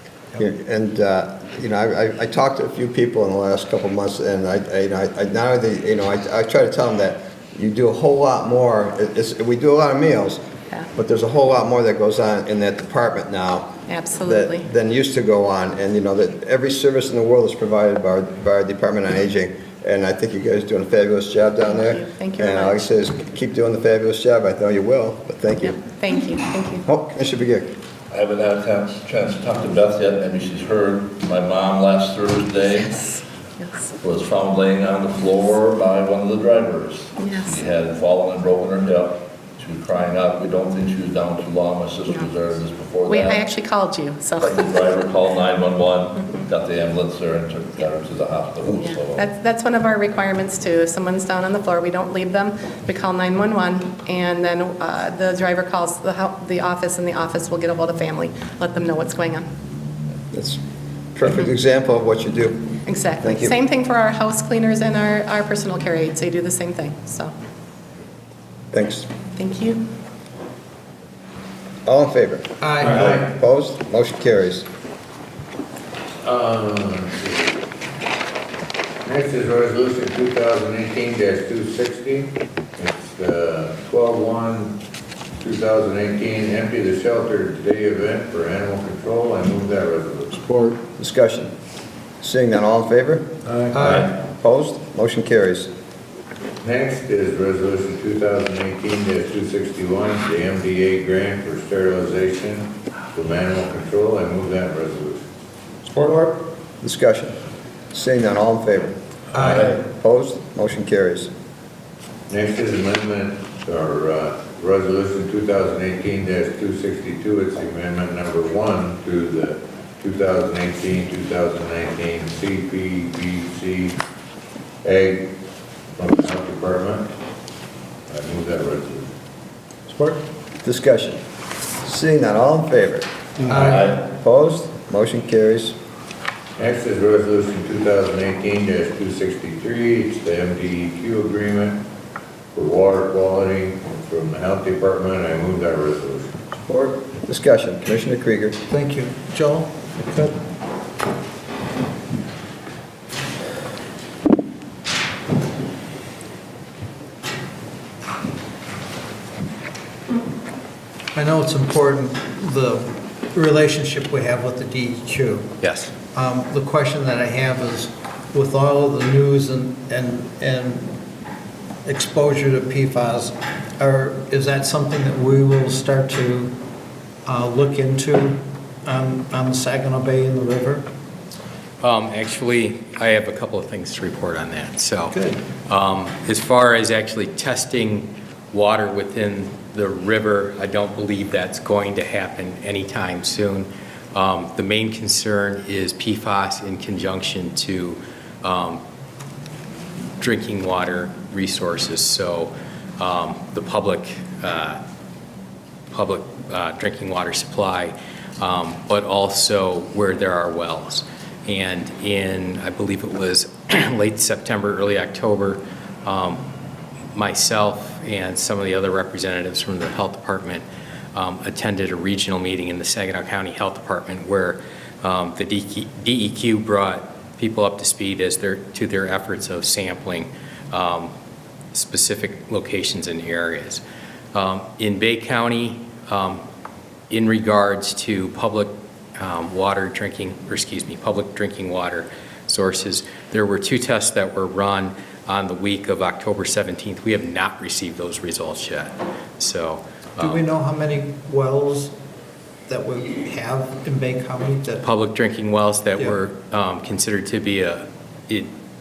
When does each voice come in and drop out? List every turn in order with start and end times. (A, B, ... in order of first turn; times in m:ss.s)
0:00.4-0:10.4 A
0:10.9-0:25.8 A
0:13.9-0:14.6 B
0:21.7-0:22.8 B
0:25.6-0:26.8 B
0:26.8-0:27.7 A
0:28.1-0:33.2 C
0:33.6-0:33.9 B
0:34.0-0:43.4 C
0:37.2-0:37.5 B
0:43.1-0:44.8 B
0:44.4-0:49.2 C
0:48.7-0:59.5 B
1:00.3-1:00.6 A
1:01.1-1:02.7 A
1:02.8-1:07.3 B
1:03.2-1:03.5 A
1:08.7-1:09.1 A
1:09.4-1:09.8 B
1:11.8-1:14.6 A
1:12.6-1:13.0 D
1:12.8-1:13.2 E
1:16.2-1:17.6 E
1:19.0-1:24.8 E
1:25.4-1:30.4 E
1:30.5-1:31.5 A
1:32.2-1:35.7 A
1:33.4-1:34.0 E
1:33.7-1:34.1 D
1:36.6-1:45.2 E
1:45.8-1:47.4 A
1:47.9-1:48.9 A
1:49.3-1:49.8 E
1:49.3-1:49.7 D
1:49.5-1:51.3 A
1:52.3-2:04.0 E
2:04.8-2:05.3 E
2:06.0-2:07.1 E
2:08.1-2:09.1 E
2:10.6-2:11.2 A
2:11.8-2:15.8 A
2:13.5-2:14.0 D
2:13.6-2:14.0 C
2:16.6-2:21.8 E
2:22.5-2:26.3 E
2:26.6-2:28.6 A
2:28.7-2:30.2 D
2:41.1-2:45.6 D
2:45.6-2:45.9 F
2:46.1-2:51.0 D
2:51.8-2:56.6 D
2:57.2-3:00.8 D
3:01.8-3:18.8 F
3:05.1-3:05.4 D
3:20.2-3:24.8 F
3:25.9-3:36.4 F
3:37.1-3:51.1 F
3:51.7-3:53.8 F
3:54.3-3:56.4 F
3:57.1-4:10.4 F
4:10.2-4:11.9 D
4:12.7-4:14.8 D
4:14.8-4:18.5 F